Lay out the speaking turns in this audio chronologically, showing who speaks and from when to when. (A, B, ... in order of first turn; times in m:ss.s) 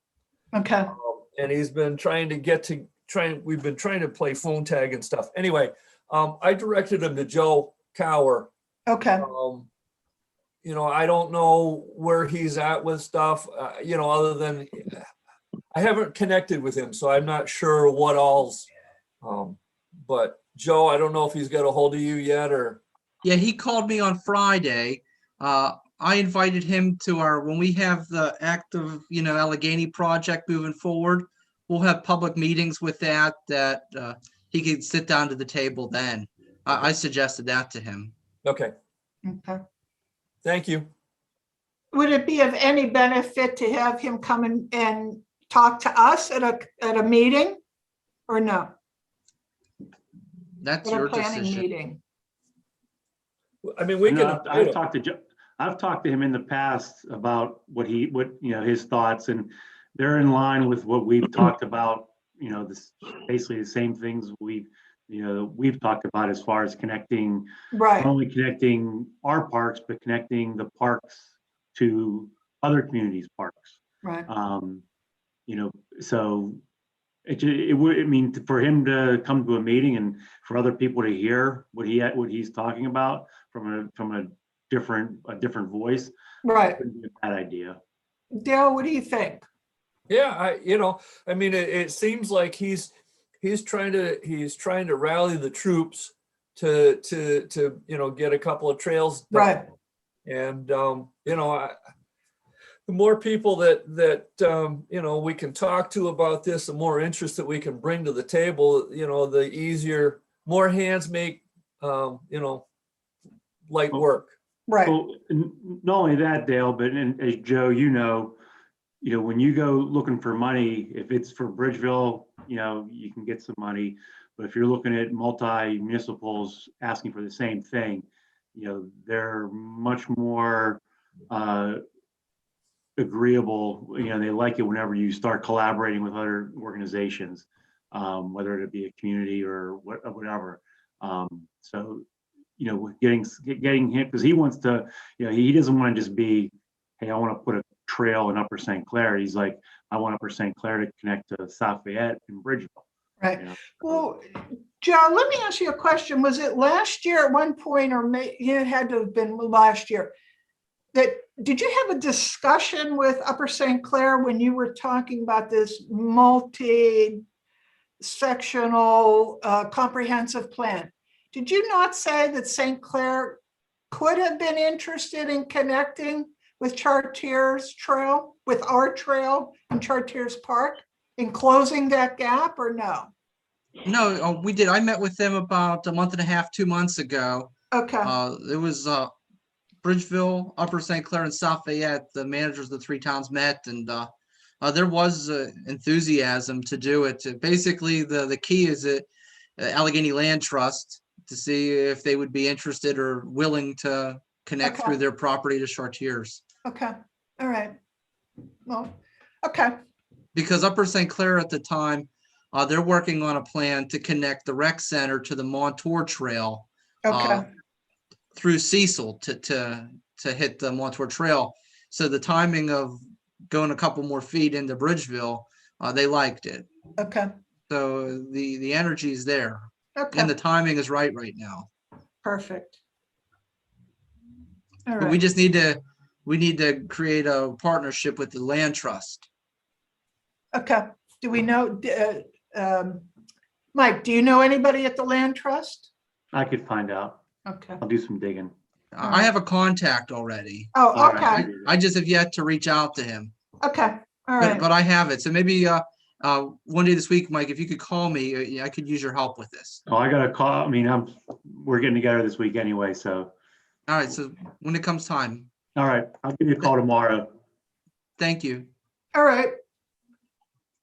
0:00.5-0:00.9 A
0:00.9-0:08.5 B
0:08.9-0:09.2 A
0:09.2-0:09.7 B
0:10.6-0:15.0 B
0:15.7-0:18.7 B
0:19.2-0:22.8 B
0:23.2-0:38.1 C
0:38.4-0:38.7 B
0:39.2-0:39.6 A
0:40.4-0:40.9 B
0:41.9-0:47.6 A
0:48.3-0:48.7 A
0:50.6-0:51.7 C
0:50.8-0:52.0 A
0:53.6-0:54.8 B
0:54.0-1:14.8 D
1:07.7-1:08.1 A
1:15.5-1:16.6 D
1:17.3-1:26.1 D
1:26.4-1:26.8 A
1:26.8-1:27.8 D
1:28.3-1:29.5 A
1:30.1-1:39.6 B
1:39.3-1:39.6 A
1:40.3-1:41.8 B
1:42.9-1:52.7 B
1:53.7-1:54.4 B
1:54.7-1:55.0 A
1:54.8-1:58.4 D
1:59.0-2:11.8 D
2:13.0-2:22.0 D
2:22.6-2:32.8 D
2:33.2-2:40.1 A
2:33.4-2:34.0 D
2:40.9-2:47.2 A
2:48.0-3:03.1 A
3:03.8-3:09.1 C
3:07.7-3:08.1 A
3:09.8-3:26.4 C
3:24.6-3:25.0 A
3:26.6-3:27.8 A
3:28.7-3:29.8 A
3:30.3-3:37.5 C
3:37.0-3:37.4 A
3:38.3-3:46.7 C
3:47.0-3:47.3 A
3:47.7-3:51.7 C
3:50.0-3:50.3 A
3:52.2-3:52.8 A
3:54.9-3:55.2 A
3:55.0-3:59.3 C
4:00.5-4:03.1 A
4:03.7-4:05.9 A
4:06.3-4:07.2 D
4:07.5-4:07.8 A
4:07.8-4:08.5 D
4:08.9-4:13.3 C
4:09.0-4:09.3 A
4:10.7-4:11.5 A
4:10.9-4:11.6 D
4:13.6-4:14.6 A
4:14.4-4:19.8 C
4:19.9-4:23.3 D
4:23.9-4:25.5 C
4:25.8-4:27.3 D
4:28.2-4:28.7 C
4:29.1-4:29.5 A